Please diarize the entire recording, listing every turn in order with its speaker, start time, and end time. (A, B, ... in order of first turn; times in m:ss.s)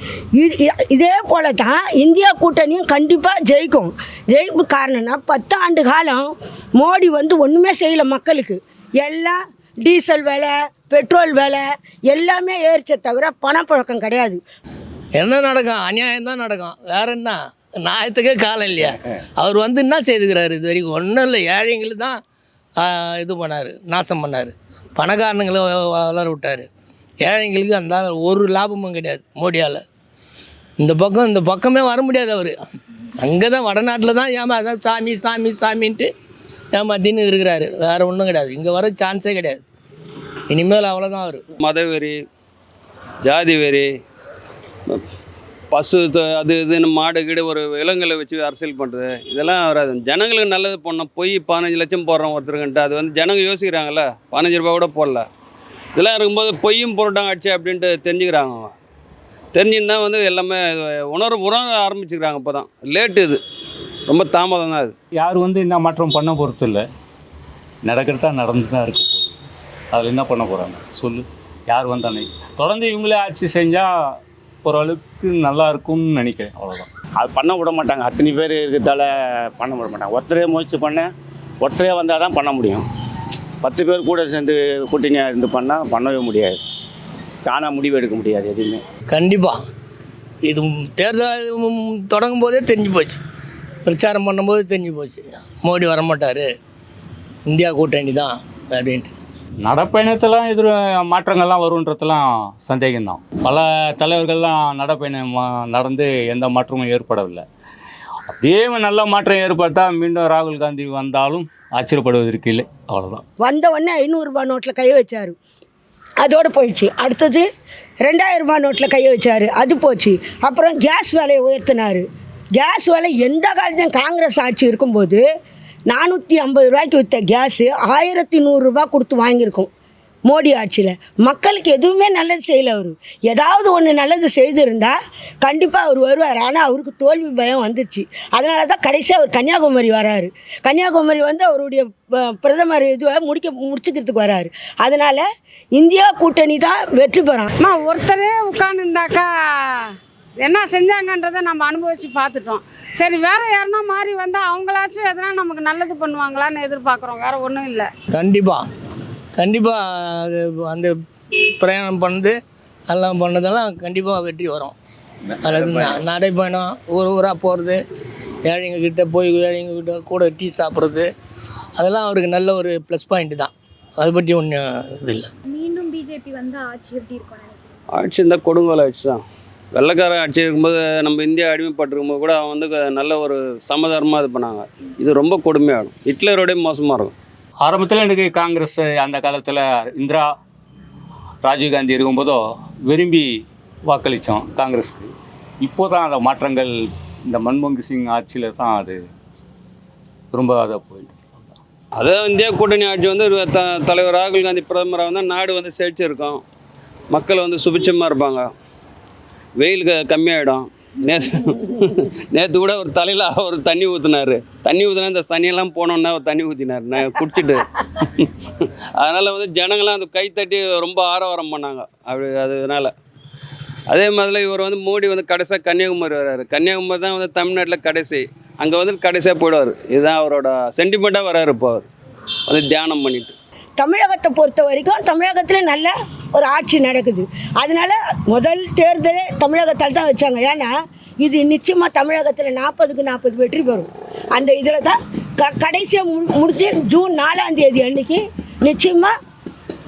0:00.4-0:14.4 A
0:15.2-0:22.2 B
0:22.8-0:26.7 B
0:27.2-0:29.8 B
0:30.8-0:32.6 B
0:33.2-0:36.1 B
0:36.7-0:39.6 B
0:40.5-0:41.4 B
0:41.6-0:42.2 C
0:43.2-0:43.9 C
0:45.7-0:55.2 C
0:56.0-0:58.7 C
0:59.5-1:03.4 C
1:04.1-1:04.9 C
1:05.1-1:06.8 D
1:07.8-1:09.4 D
1:09.9-1:13.9 D
1:14.6-1:16.9 D
1:17.2-1:21.1 E
1:21.6-1:22.8 E
1:23.6-1:26.6 E
1:27.4-1:28.8 E
1:29.1-1:29.6 B
1:30.4-1:33.2 B
1:33.8-1:36.5 B
1:37.5-1:39.1 B
1:39.6-1:47.4 D
1:48.3-1:53.2 D
1:53.4-1:55.4 A
1:56.2-1:57.4 A
1:58.1-2:05.2 A
2:05.9-2:09.7 A
2:10.3-2:27.5 A
2:27.6-2:29.8 F
2:30.4-2:37.9 F
2:38.1-2:38.6 B
2:39.4-2:40.9 B
2:41.6-2:42.4 B
2:42.9-2:44.8 B
2:45.3-2:47.8 B
2:48.4-2:51.1 B
2:51.8-2:55.3 B
2:55.5-2:57.6 G
2:58.0-2:59.2 C
2:59.8-3:07.1 C
3:07.6-3:10.3 D
3:11.4-3:13.3 D
3:13.8-3:15.1 D
3:15.6-3:16.8 D
3:17.3-3:19.0 D
3:20.3-3:21.5 D
3:22.0-3:26.4 C
3:27.1-3:28.5 C
3:29.6-3:42.9 C
3:43.9-3:51.8 C
3:52.5-3:53.3 C
3:53.8-4:09.1 A